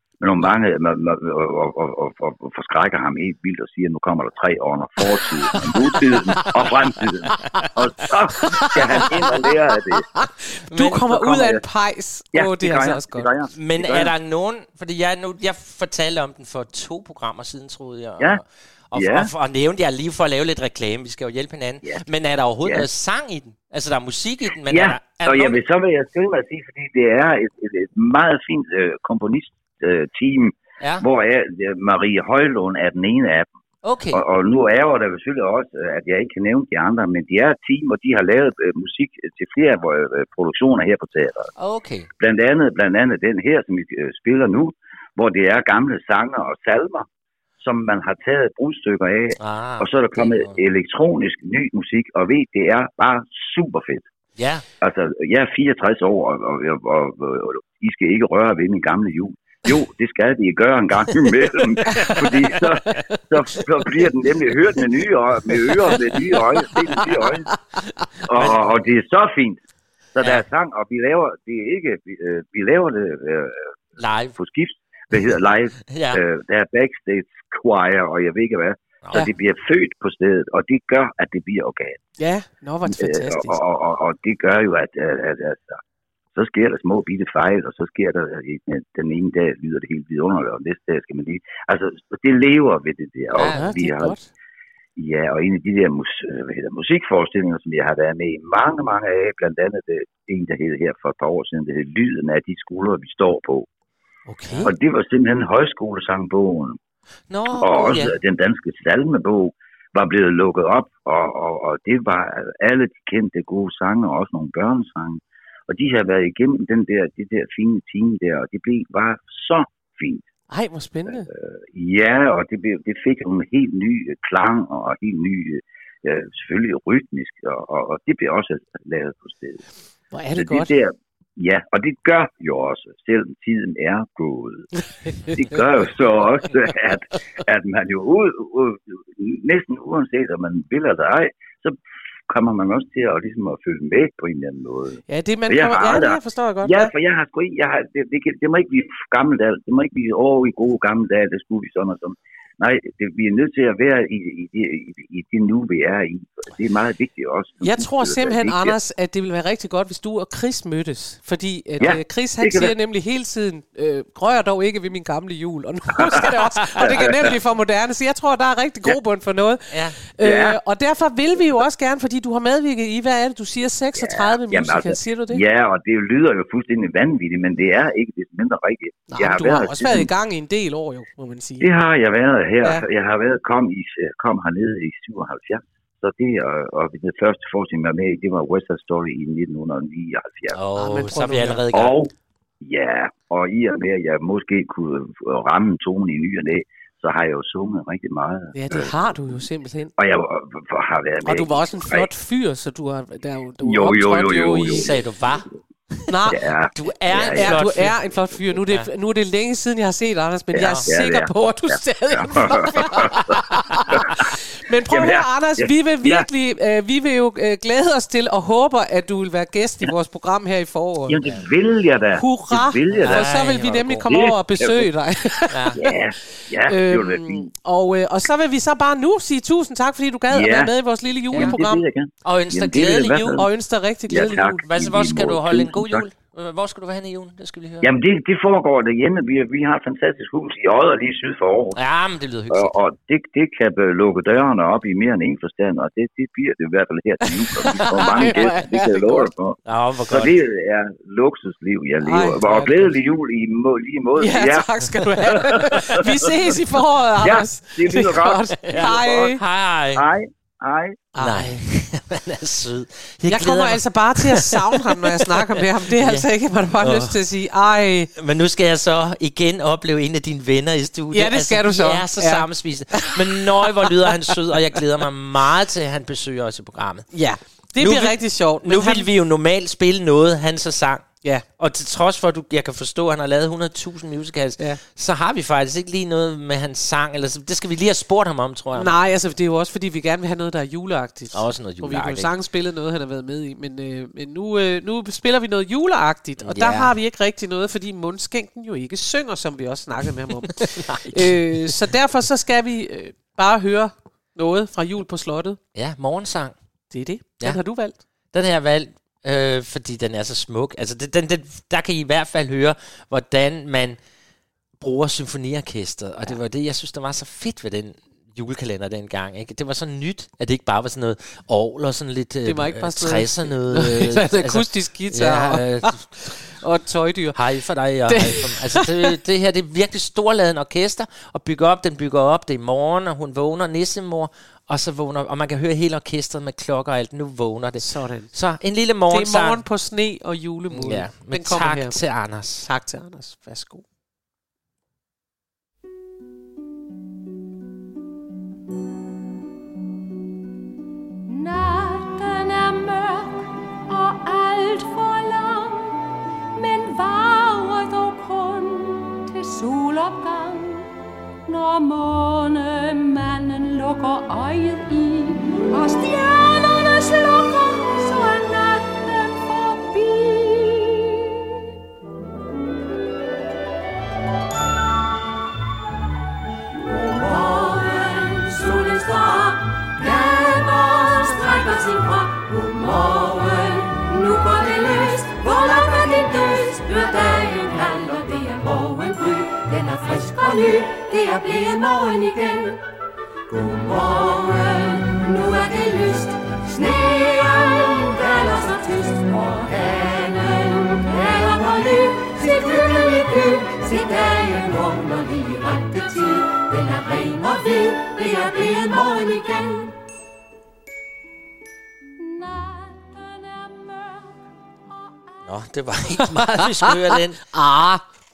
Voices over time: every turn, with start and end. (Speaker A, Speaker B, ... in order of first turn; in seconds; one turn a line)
Speaker A: 0.2-10.1
Speaker B: 5.6-6.0
Speaker B: 8.4-9.5
Speaker B: 10.0-13.3
Speaker C: 10.7-11.0
Speaker A: 10.8-11.6
Speaker A: 12.3-14.1
Speaker C: 13.6-25.6
Speaker A: 18.9-19.3
Speaker A: 24.7-33.5
Speaker C: 33.8-34.2
Speaker A: 34.1-41.5
Speaker C: 41.6-42.1
Speaker A: 42.2-47.1
Speaker A: 47.6-54.1
Speaker C: 49.4-50.6
Speaker C: 54.4-54.6
Speaker A: 54.8-67.6
Speaker C: 61.4-62.7
Speaker A: 68.3-69.6
Speaker C: 68.3-68.7
Speaker A: 70.2-73.7
Speaker C: 70.2-70.4
Speaker C: 74.0-74.4
Speaker A: 74.4-82.0
Speaker C: 75.9-76.2
Speaker B: 82.2-83.6
Speaker A: 82.9-85.8
Speaker A: 86.3-94.2
Speaker C: 93.3-93.7
Speaker B: 93.4-94.3
Speaker A: 95.0-103.7
Speaker B: 104.3-104.7
Speaker C: 104.3-104.7
Speaker A: 104.6-106.8
Speaker C: 107.3-108.2
Speaker A: 107.5-120.3
Speaker B: 120.5-121.3
Speaker A: 121.1-129.6
Speaker B: 130.1-130.7
Speaker A: 130.4-141.8
Speaker A: 142.3-158.7
Speaker B: 145.1-146.9
Speaker B: 157.6-175.4
Speaker A: 161.8-162.7
Speaker C: 169.7-170.0
Speaker A: 170.2-170.6
Speaker A: 174.0-180.1
Speaker B: 179.1-181.7
Speaker A: 181.6-190.6
Speaker C: 190.5-192.0
Speaker B: 190.8-191.6
Speaker A: 191.7-198.9
Speaker B: 198.5-199.9
Speaker A: 200.0-202.1
Speaker B: 201.2-204.9
Speaker A: 203.6-204.9
Speaker C: 204.7-206.1
Speaker B: 206.1-206.4
Speaker A: 206.3-207.6
Speaker C: 206.7-208.0
Speaker B: 207.3-221.2
Speaker A: 210.5-213.4
Speaker C: 210.6-210.9
Speaker A: 213.9-214.2
Speaker A: 214.9-216.3
Speaker A: 221.1-223.3
Speaker B: 222.2-231.8
Speaker C: 222.9-224.1
Speaker A: 224.1-224.9
Speaker C: 225.5-225.8
Speaker A: 225.8-227.5
Speaker A: 230.3-230.7
Speaker A: 231.3-233.5
Speaker C: 231.3-231.6
Speaker C: 232.2-233.5
Speaker B: 233.3-234.6
Speaker A: 234.1-236.1
Speaker C: 234.6-237.9
Speaker A: 237.8-241.8
Speaker C: 241.8-242.8
Speaker A: 242.5-256.0
Speaker B: 247.5-249.3
Speaker C: 249.7-250.4
Speaker B: 252.0-252.9
Speaker B: 254.2-259.4
Speaker A: 257.2-259.3
Speaker C: 258.7-260.1
Speaker A: 259.9-261.1
Speaker B: 261.1-261.6
Speaker C: 261.2-267.2
Speaker B: 263.3-268.1
Speaker C: 268.1-277.1
Speaker B: 271.1-274.3
Speaker B: 277.1-279.1
Speaker C: 277.8-281.1
Speaker C: 281.6-288.9
Speaker B: 288.8-305.6
Speaker C: 291.3-292.3
Speaker C: 296.4-296.9
Speaker C: 300.8-301.4
Speaker C: 305.8-306.6
Speaker B: 306.9-308.0
Speaker C: 308.3-314.0
Speaker C: 314.8-326.4
Speaker B: 322.4-327.4
Speaker C: 327.3-339.6
Speaker B: 328.1-328.9
Speaker B: 337.8-338.3
Speaker B: 339.1-342.0
Speaker C: 340.7-342.7
Speaker B: 342.6-343.8
Speaker D: 351.3-355.9
Speaker D: 356.6-360.9
Speaker D: 361.5-371.2
Speaker D: 377.2-392.8
Speaker D: 393.6-396.3
Speaker D: 396.8-399.9
Speaker D: 400.9-406.5
Speaker D: 407.2-409.5
Speaker D: 412.2-414.2
Speaker C: 415.4-417.4
Speaker B: 416.3-418.0